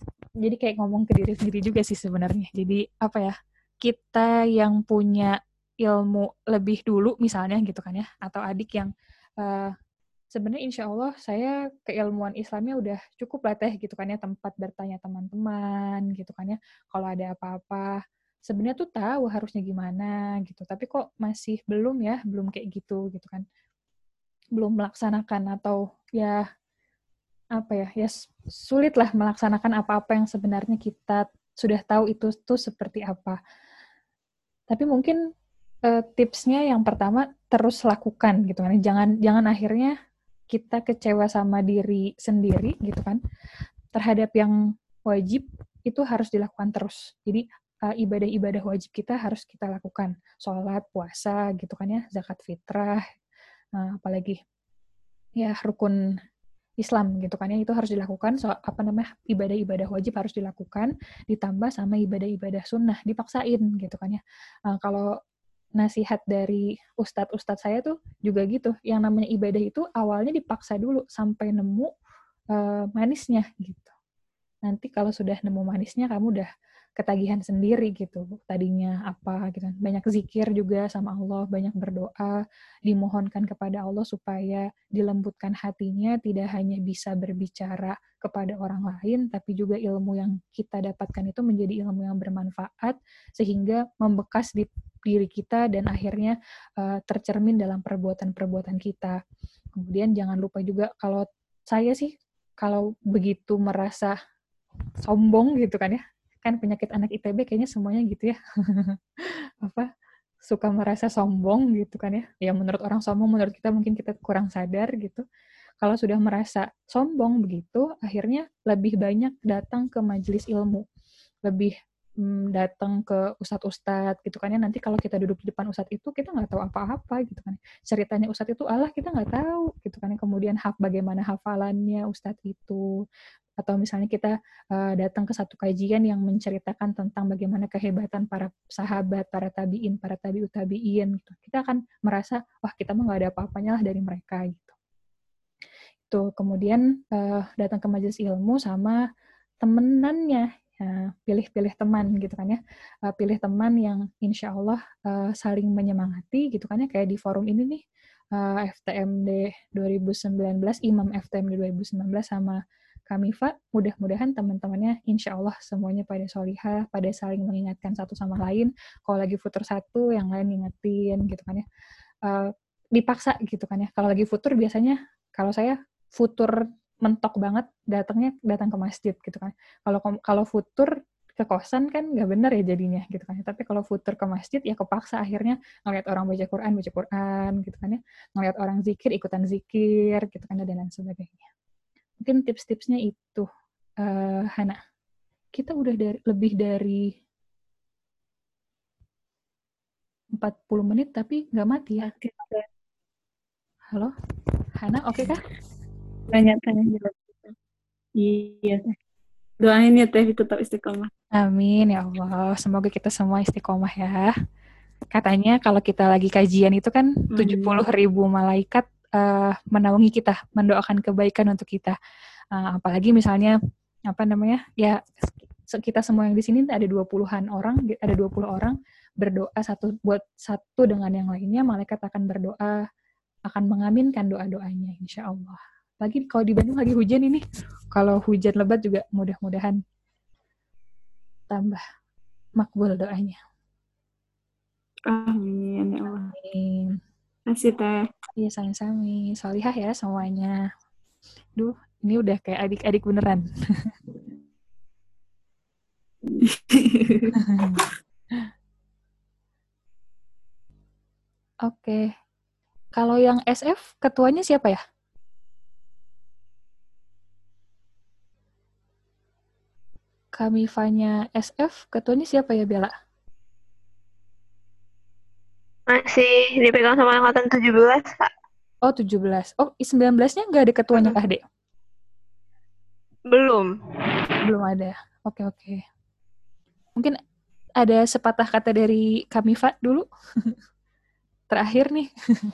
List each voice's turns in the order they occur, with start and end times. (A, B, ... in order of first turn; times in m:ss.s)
0:00.4-0:09.7 A
0:10.3-0:17.9 A
0:18.5-0:23.4 A
0:24.6-0:26.4 A
0:27.6-0:33.4 A
0:34.7-0:35.2 A
0:35.9-0:39.9 A
0:40.5-0:43.2 A
0:43.9-0:44.5 A
0:45.1-0:53.0 A
0:53.8-0:54.4 A
0:55.4-0:55.9 A
0:56.8-1:05.1 A
1:05.8-1:11.9 A
1:12.5-1:13.9 A
1:14.6-1:39.2 A
1:39.8-1:44.1 A
1:45.0-1:49.0 A
1:49.6-1:49.9 A
1:50.5-1:55.2 A
1:55.8-2:00.8 A
2:01.4-2:12.8 A
2:13.6-2:24.7 A
2:26.1-2:29.0 A
2:29.6-2:37.8 A
2:38.4-2:51.6 A
2:52.2-3:11.5 A
3:12.2-3:13.5 A
3:14.0-3:14.8 A
3:15.6-3:17.1 A
3:20.4-3:22.1 A
3:22.0-3:22.6 B
3:24.8-3:25.4 A
3:26.3-3:27.5 B
3:28.2-3:28.8 B
3:29.6-3:31.1 B
3:31.4-3:34.3 A
3:35.1-3:42.0 A
3:37.3-3:37.8 B
3:42.5-3:43.5 A
3:44.1-3:45.0 A
3:45.6-3:52.8 A
3:53.5-3:59.8 A
4:01.5-4:01.8 A
4:02.6-4:03.4 A
4:05.1-4:06.3 B
4:06.3-4:07.0 A
4:07.5-4:07.9 B
4:08.4-4:10.6 A
4:11.6-4:13.9 A
4:16.4-4:17.4 B
4:17.3-4:17.8 A
4:21.6-4:22.1 A
4:23.0-4:24.8 A
4:30.4-4:32.9 A
4:35.9-4:38.3 C
4:38.8-4:41.4 A
4:43.3-4:43.7 C
4:44.4-4:45.8 A
4:47.8-4:50.5 A
4:51.5-4:52.1 A